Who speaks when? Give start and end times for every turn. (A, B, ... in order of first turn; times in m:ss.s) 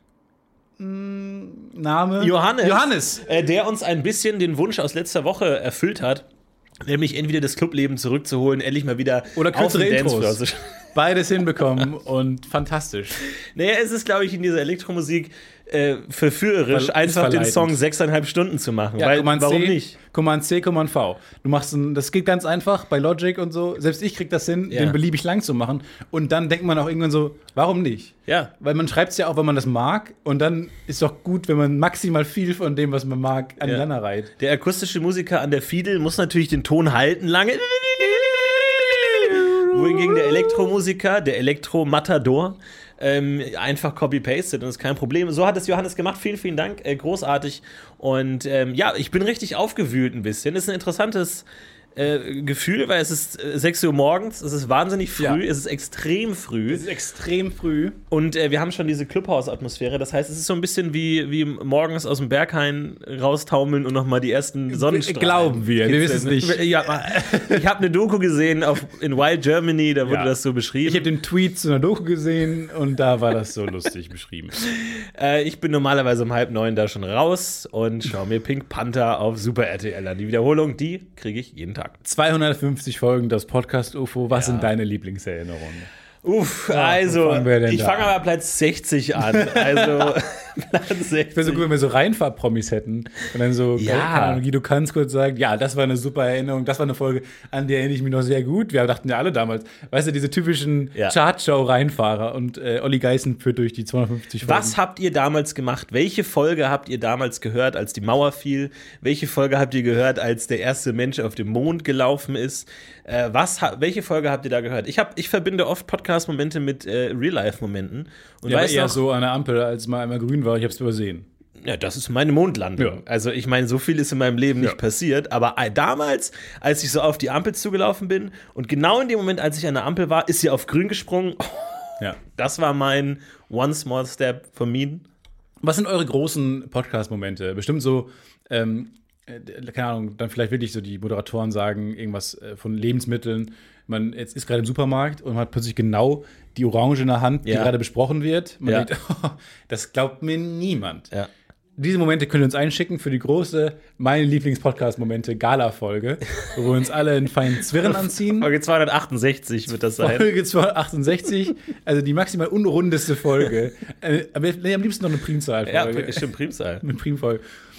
0:00.8-0:03.2 A
0:02.2-0:06.2 B
0:06.8-0:10.6 B
0:09.4-0:10.4 A
0:10.9-0:13.2 A
0:13.5-0:20.0 B
0:16.7-0:17.8 A
0:19.0-0:34.3 A
0:24.7-0:25.0 B
0:34.4-0:51.4 B
0:52.0-0:56.8 B
0:55.2-0:55.4 A
0:56.7-0:58.0 A
0:58.1-1:11.1 B
1:04.7-1:07.6 A
1:10.0-1:10.3 A
1:10.8-1:14.6 A
1:14.6-1:22.0 B
1:22.0-1:25.9 A
1:24.3-1:24.7 B
1:26.2-1:31.6 B
1:26.7-1:28.2 A
1:29.2-1:30.2 A
1:31.3-1:44.8 A
1:33.8-1:34.4 B
1:44.4-1:59.0 B
1:58.4-2:01.3 A
2:01.6-2:15.0 B
2:15.6-2:31.1 A
2:27.4-2:27.7 B
2:31.8-2:38.5 A
2:37.8-2:40.3 B
2:40.0-2:46.3 A
2:45.6-2:46.8 B
2:46.8-2:47.4 A